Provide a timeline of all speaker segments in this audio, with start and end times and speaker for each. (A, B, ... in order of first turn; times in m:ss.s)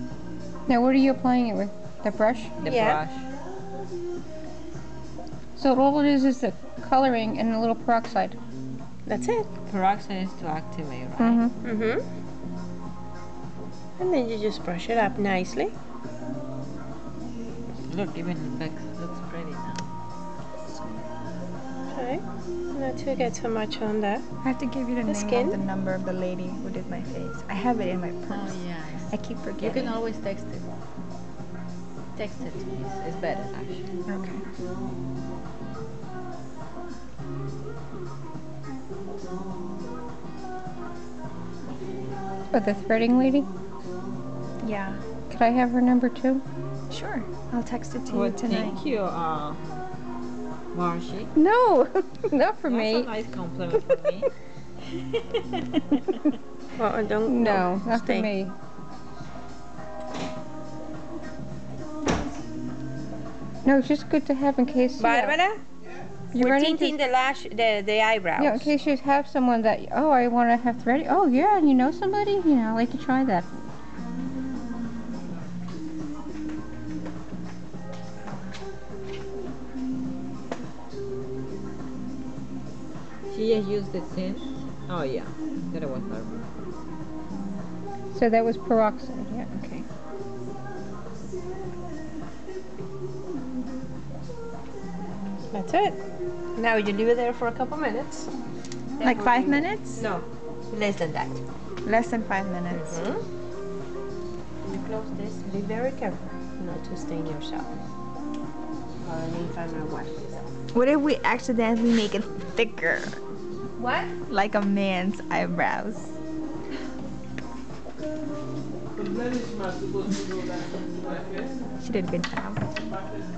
0:00.7-0:02.6 A
0:02.6-0:03.2 B
0:02.6-0:03.0 C
0:05.6-0:08.4 A
0:09.0-0:09.5 C
0:09.6-0:11.4 B
0:11.2-0:11.5 A
0:11.6-0:12.0 C
0:14.0-0:15.7 C
0:17.9-0:19.8 B
0:21.9-0:24.2 C
0:24.4-0:30.0 D
0:25.0-0:25.6 C
0:28.3-0:30.6 B
0:32.1-0:33.9 B
0:34.1-0:34.4 D
0:42.5-0:43.5 A
0:44.6-0:45.0 D
0:45.3-0:46.4 A
0:46.9-0:48.8 D
0:48.1-0:49.6 B
0:50.7-0:51.3 B
0:51.3-0:53.1 A
0:52.6-0:54.3 B
0:55.5-0:56.1 B
0:56.8-0:58.3 C
0:57.2-0:58.5 A
1:03.6-1:05.4 A
1:05.0-1:05.6 C
1:06.3-1:07.0 A
1:06.4-1:08.7 C
1:08.4-1:13.5 A
1:23.3-1:26.5 B
1:28.1-1:29.8 A
1:35.5-1:36.0 C
1:36.6-1:38.3 C
1:39.0-1:41.4 C
1:39.0-1:40.1 D
1:41.8-1:43.0 D
1:42.7-1:43.2 C
1:44.6-1:47.7 C
1:49.0-1:50.5 C
1:50.7-1:53.2 D
1:53.8-1:54.1 C
1:54.2-1:56.2 D
2:01.8-2:02.7 D